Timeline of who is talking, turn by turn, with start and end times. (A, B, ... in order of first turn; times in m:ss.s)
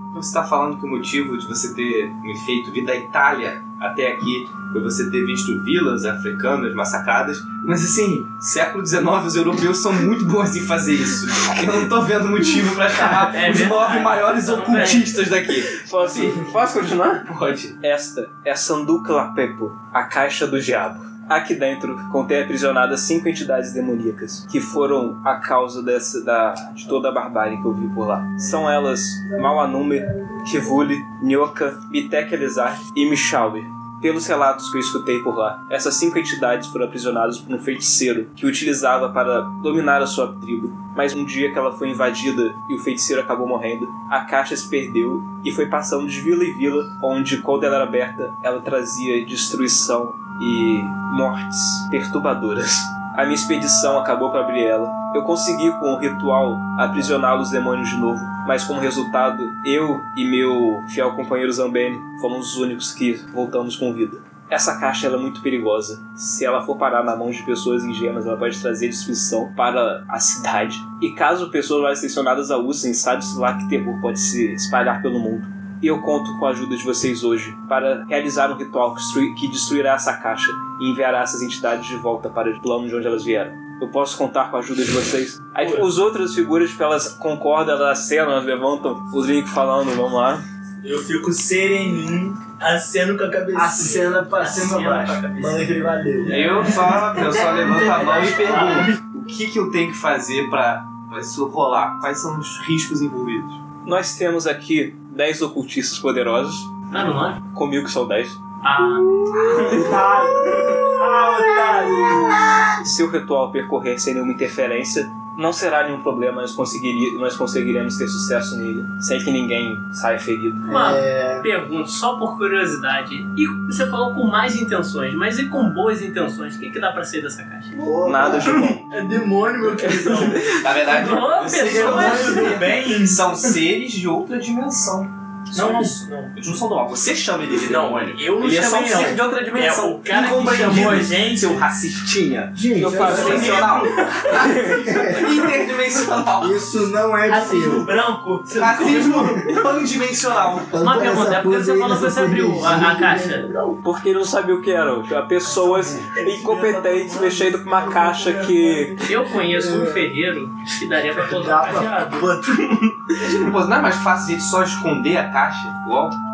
0:00.1-0:16.5 A
0:13.0-0:15.1 B
0:15.7-0:17.3 C
0:17.3-0:17.8 A
0:17.8-1:30.4 C
1:25.6-1:25.9 D
1:30.8-1:33.9 D
1:33.6-1:36.7 E
1:33.7-1:35.6 B
1:36.3-1:43.6 A
1:37.6-1:38.9 B
1:43.8-1:46.7 C
1:46.9-1:47.4 B
1:47.5-1:48.4 C
1:48.6-1:49.1 B
1:49.6-1:52.4 E
1:52.8-2:00.7 C
2:00.7-2:07.7 B
2:00.7-2:01.4 E
2:00.7-2:01.0 F
2:07.7-2:10.5 E
2:08.0-2:08.9 C
2:10.5-2:26.7 A
2:10.8-2:12.6 B
2:11.6-2:13.3 D
2:15.5-2:16.4 D
2:17.6-2:21.7 D
2:22.5-2:23.8 F
2:22.8-2:23.7 C
2:23.1-2:23.5 E
2:23.2-2:24.2 D
2:24.3-2:25.0 C
2:24.7-2:25.3 F
2:26.4-2:27.9 F
2:27.3-2:28.7 B
2:28.0-2:29.6 D
2:28.5-2:30.8 A
2:30.7-2:33.8 F
2:30.8-2:33.5 B
2:33.8-2:39.0 C
2:35.4-2:40.1 E
2:39.0-2:42.3 B
2:41.2-2:43.0 E
2:43.2-2:46.2 A